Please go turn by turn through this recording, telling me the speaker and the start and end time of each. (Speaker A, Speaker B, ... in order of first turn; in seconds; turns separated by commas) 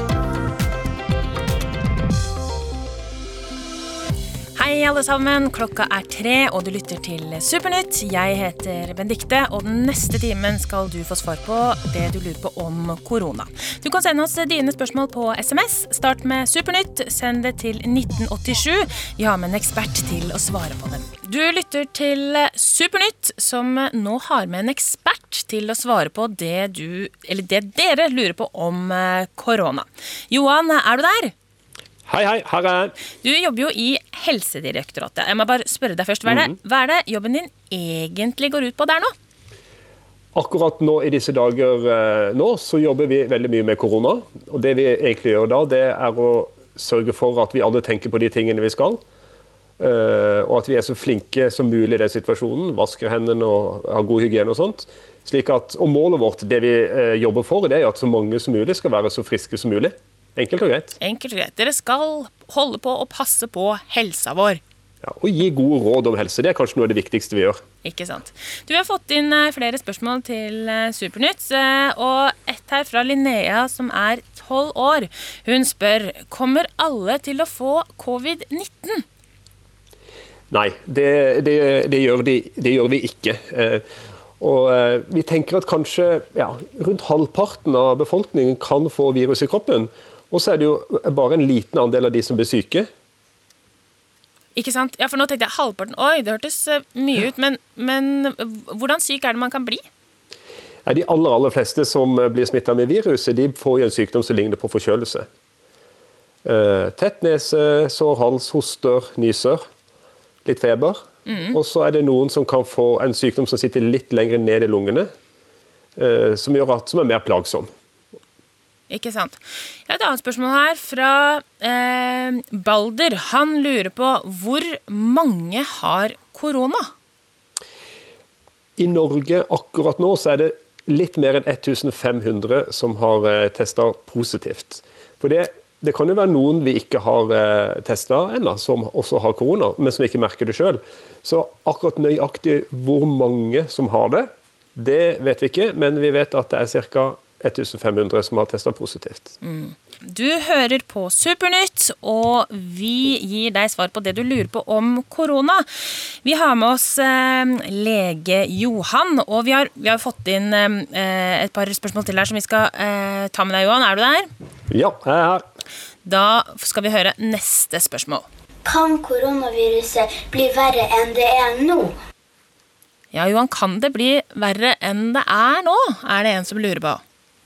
Speaker A: 4.5-31.3, Speaker B: 32.1-32.9, Speaker A: 33.2-39.1, Speaker B: 36.2-36.5, Speaker B: 40.3-49.0, Speaker B: 49.8-61.0, Speaker A: 61.0-64.6, Speaker B: 65.0-67.6, Speaker A: 67.8-79.0, Speaker B: 80.5-83.8, Speaker B: 84.4-92.9, Speaker A: 94.5-99.8, Speaker B: 100.8-105.2, Speaker B: 106.4-109.6, Speaker B: 110.4-115.1, Speaker A: 111.2-111.6, Speaker B: 116.0-117.7, Speaker A: 118.9-126.9, Speaker B: 128.8-149.3, Speaker A: 149.4-164.3, Speaker B: 164.7-165.4, Speaker A: 166.0-168.2, Speaker C: 168.6-171.9, Speaker A: 173.1-177.0